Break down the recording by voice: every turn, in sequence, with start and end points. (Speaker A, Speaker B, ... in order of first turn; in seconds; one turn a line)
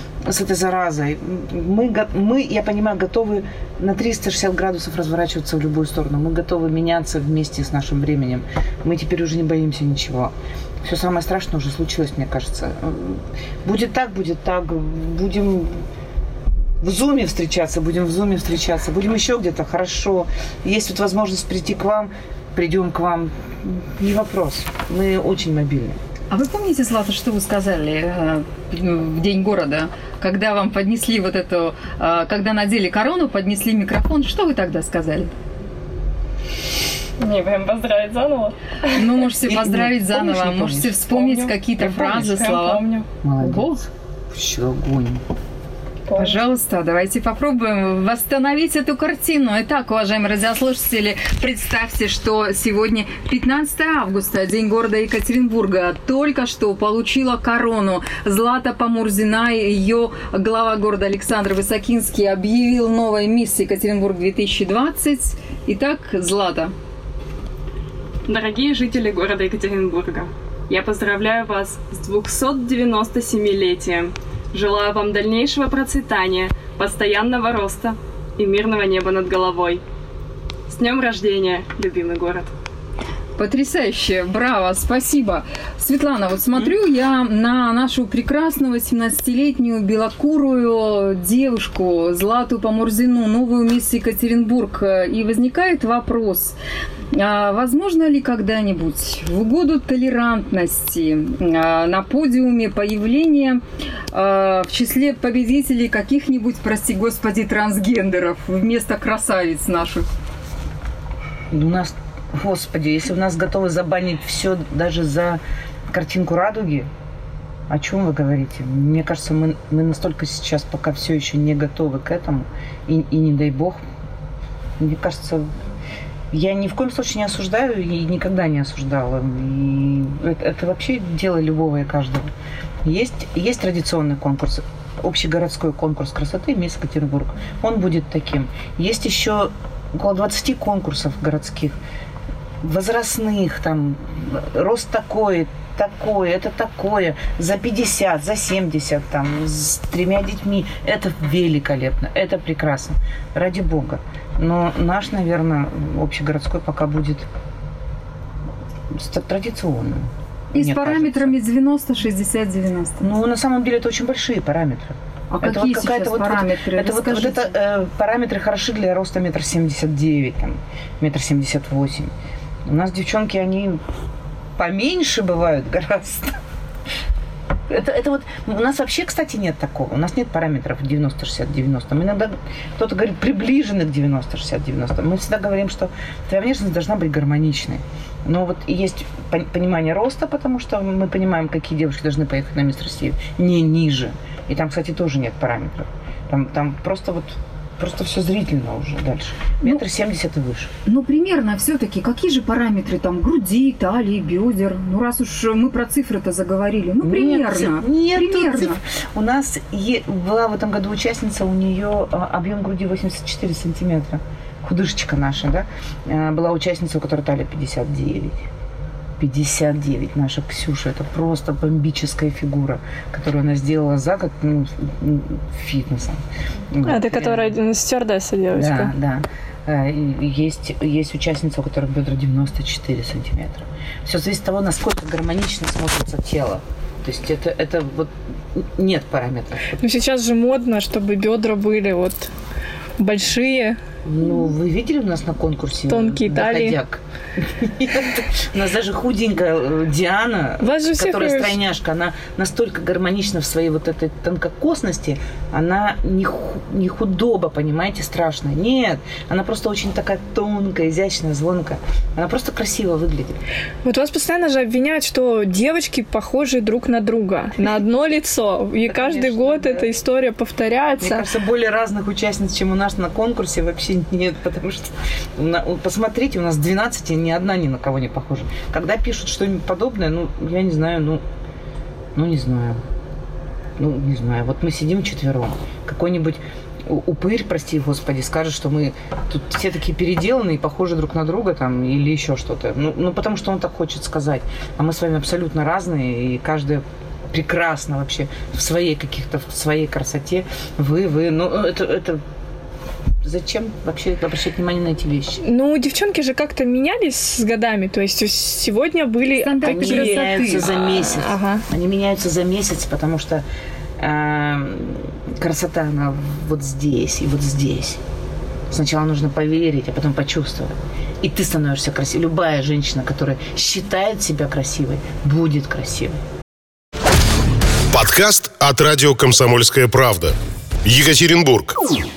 Speaker A: 0.2-15.8
Speaker A: 16.8-26.0
Speaker B: 26.3-35.3
Speaker C: 37.2-39.0
Speaker B: 38.9-42.8
Speaker A: 39.4-41.0
Speaker C: 41.0-43.0
Speaker A: 43.2-45.2
Speaker B: 43.4-43.8
Speaker C: 46.0-46.4
Speaker B: 46.1-66.7
Speaker C: 68.2-79.8
Speaker C: 80.7-82.5
Speaker B: 83.4-96.6
Speaker B: 97.1-110.0
Speaker A: 111.5-116.9
Speaker A: 117.7-123.8
Speaker A: 124.8-125.5
Speaker A: 126.3-132.3
Speaker A: 132.8-141.8
Speaker A: 142.6-157.3
Speaker A: 158.9-161.3
Speaker B: 160.5-163.0
Speaker A: 163.0-172.1
Speaker B: 165.3-167.5
Speaker A: 172.7-173.8
Speaker A: 174.6-176.4
Speaker A: 177.7-200.7
Speaker B: 200.8-208.8
Speaker A: 207.0-218.4
Speaker A: 219.2-227.5
Speaker D: 226.8-228.9
Speaker A: 228.5-239.8
Speaker D: 239.8-242.3
Speaker D: 243.0-243.8
Speaker A: 244.0-263.4
Speaker D: 245.9-246.8
Speaker D: 250.6-251.6
Speaker D: 263.8-271.2
Speaker A: 268.9-269.9
Speaker A: 271.0-281.2
Speaker A: 282.1-282.8
Speaker A: 283.8-302.2
Speaker A: 303.2-305.4
Speaker D: 305.4-311.6
Speaker B: 309.4-310.6
Speaker A: 309.6-313.4
Speaker A: 314.0-318.0
Speaker A: 318.7-326.2
Speaker E: 327.9-331.8